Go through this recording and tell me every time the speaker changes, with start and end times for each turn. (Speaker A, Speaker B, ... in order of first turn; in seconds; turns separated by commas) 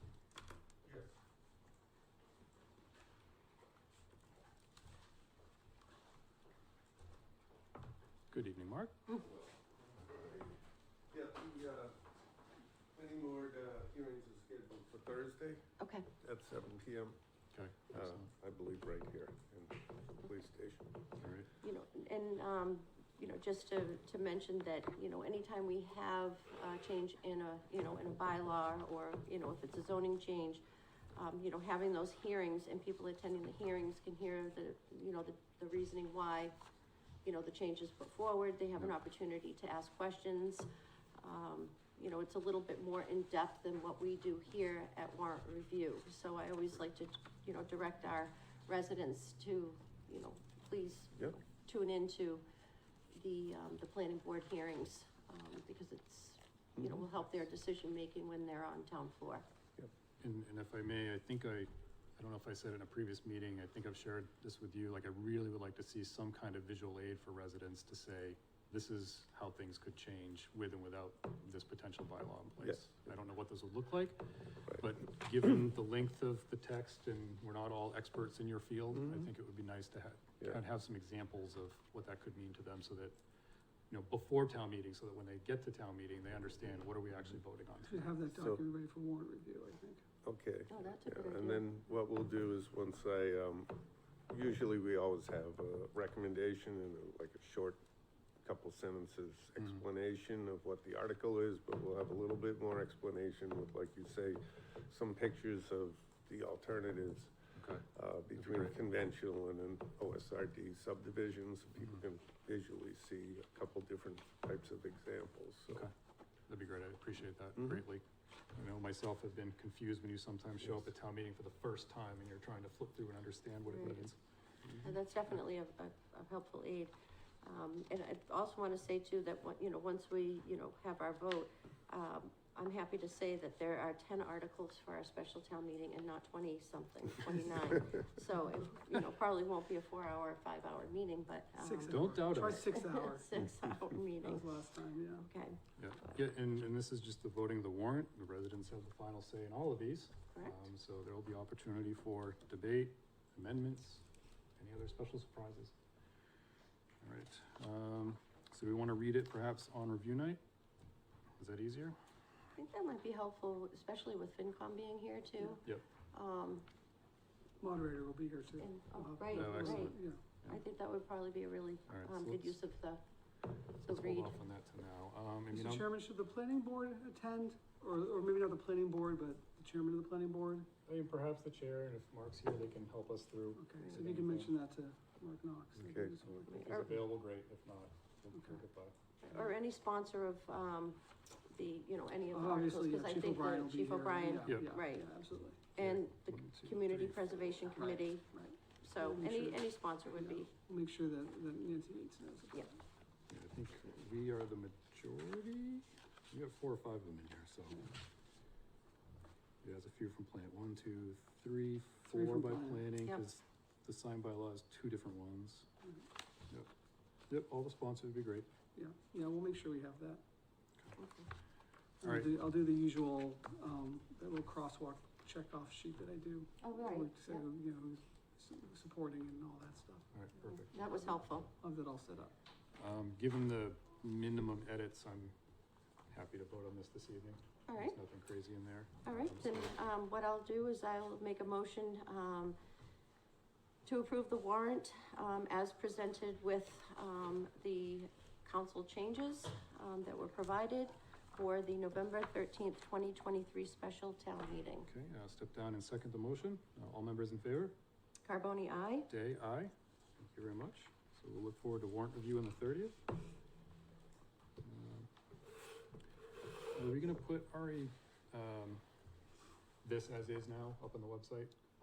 Speaker A: 0.8-1.1, Speaker B: 8.3-9.0, Speaker A: 9.8-10.5, Speaker A: 11.1-12.0, Speaker A: 12.9-15.6, Speaker C: 15.8-16.1, Speaker A: 16.2-17.2, Speaker B: 17.5-18.3, Speaker A: 17.9-21.0, Speaker B: 21.2-21.5, Speaker C: 21.6-30.6, Speaker C: 31.1-36.5, Speaker C: 37.2-40.7, Speaker C: 41.2-52.4, Speaker C: 53.1-59.5, Speaker A: 56.8-57.0, Speaker B: 60.2-83.1, Speaker B: 83.9-88.1, Speaker D: 87.9-90.1, Speaker A: 88.3-88.6, Speaker A: 90.2-97.8, Speaker C: 90.7-91.6, Speaker A: 98.4-107.3, Speaker B: 107.6-107.8, Speaker A: 107.9-115.9, Speaker B: 108.4-108.7, Speaker B: 116.5-118.0, Speaker B: 118.5-124.2, Speaker C: 123.7-124.0, Speaker C: 124.8-144.5, Speaker D: 141.5-143.4, Speaker B: 141.9-142.6, Speaker D: 144.2-145.2, Speaker C: 145.1-146.2, Speaker B: 145.8-154.0, Speaker C: 150.3-150.6, Speaker B: 154.6-155.7, Speaker B: 157.0-160.4, Speaker B: 161.4-162.0, Speaker C: 162.5-166.7, Speaker D: 167.6-170.2, Speaker C: 168.6-173.0, Speaker B: 169.3-170.6, Speaker B: 171.9-172.6, Speaker B: 173.8-175.9, Speaker C: 173.8-174.3, Speaker D: 175.5-180.7, Speaker B: 180.8-184.5, Speaker D: 183.6-186.5, Speaker A: 185.8-186.2, Speaker B: 186.3-188.9, Speaker C: 186.5-187.0, Speaker D: 188.3-188.6, Speaker C: 189.2-195.1, Speaker D: 192.3-195.6, Speaker B: 194.4-194.7, Speaker C: 195.7-200.5, Speaker B: 195.8-197.6, Speaker D: 197.8-202.7, Speaker B: 203.3-207.9, Speaker B: 209.6-215.7, Speaker D: 212.1-212.8, Speaker B: 217.3-218.5, Speaker D: 218.7-220.2, Speaker C: 221.0-221.3, Speaker D: 222.0-230.6, Speaker B: 222.0-222.3, Speaker C: 226.6-227.4, Speaker B: 230.1-230.7, Speaker C: 230.7-231.5, Speaker D: 231.6-232.3, Speaker B: 232.8-235.3, Speaker B: 236.1-239.7, Speaker C: 237.7-238.0, Speaker C: 239.0-242.6, Speaker C: 243.8-254.9, Speaker B: 254.9-257.7, Speaker C: 258.2-259.1, Speaker B: 259.1-263.0, Speaker B: 264.6-265.1, Speaker B: 266.7-268.8, Speaker B: 269.8-271.5